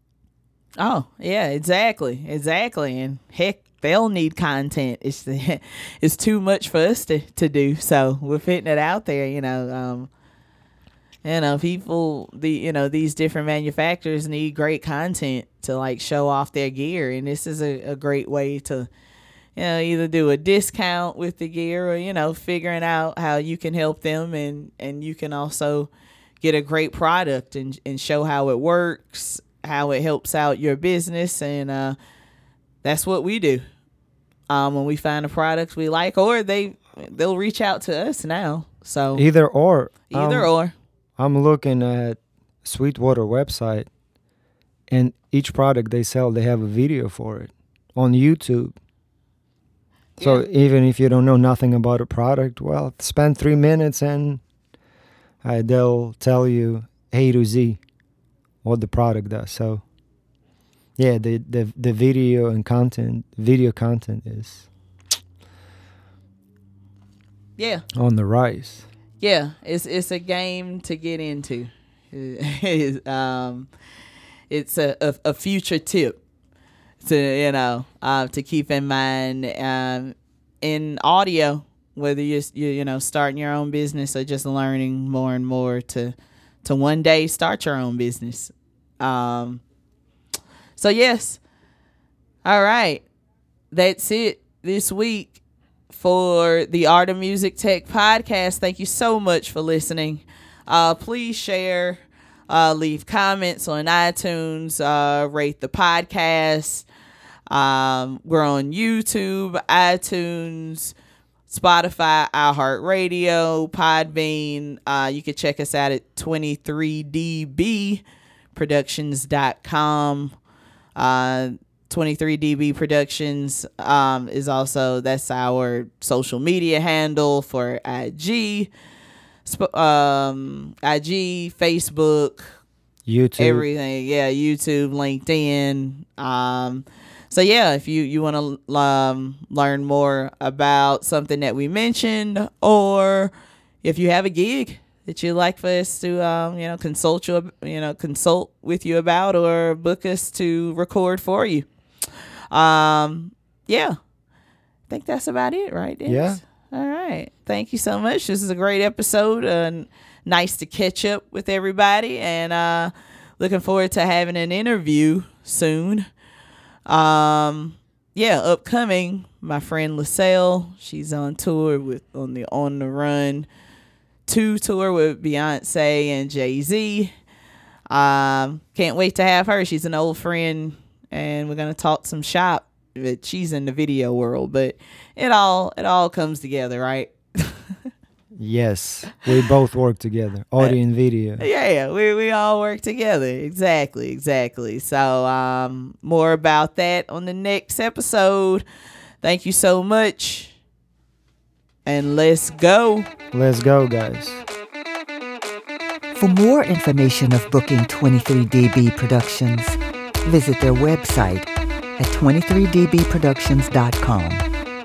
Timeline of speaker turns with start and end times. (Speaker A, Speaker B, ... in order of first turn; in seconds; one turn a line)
Speaker A: 0.8-10.1
Speaker A: 11.2-18.9
Speaker A: 19.6-25.9
Speaker A: 26.4-32.0
Speaker A: 32.8-33.6
Speaker A: 34.5-39.2
Speaker B: 39.1-40.5
Speaker A: 40.1-40.7
Speaker B: 41.2-43.9
Speaker B: 44.9-48.7
Speaker A: 50.2-50.4
Speaker B: 50.2-54.4
Speaker B: 55.4-57.8
Speaker B: 58.6-59.8
Speaker B: 61.0-64.7
Speaker A: 67.6-67.8
Speaker B: 67.9-68.8
Speaker A: 69.2-73.7
Speaker A: 74.5-76.2
Speaker A: 77.0-89.6
Speaker A: 90.8-91.4
Speaker A: 92.4-93.0
Speaker A: 93.7-106.8
Speaker A: 107.5-110.9
Speaker A: 111.5-118.0
Speaker A: 118.5-120.3
Speaker A: 121.0-128.7
Speaker A: 129.4-132.6
Speaker B: 133.1-133.7
Speaker A: 133.4-143.3
Speaker A: 143.8-151.7
Speaker A: 152.5-154.0
Speaker A: 154.9-166.1
Speaker B: 156.1-156.4
Speaker A: 166.8-173.5
Speaker A: 174.2-177.1
Speaker A: 177.9-187.8
Speaker B: 188.4-191.4
Speaker A: 191.4-198.6
Speaker A: 199.2-200.5
Speaker A: 201.8-203.1
Speaker B: 203.3-204.4
Speaker C: 206.1-214.4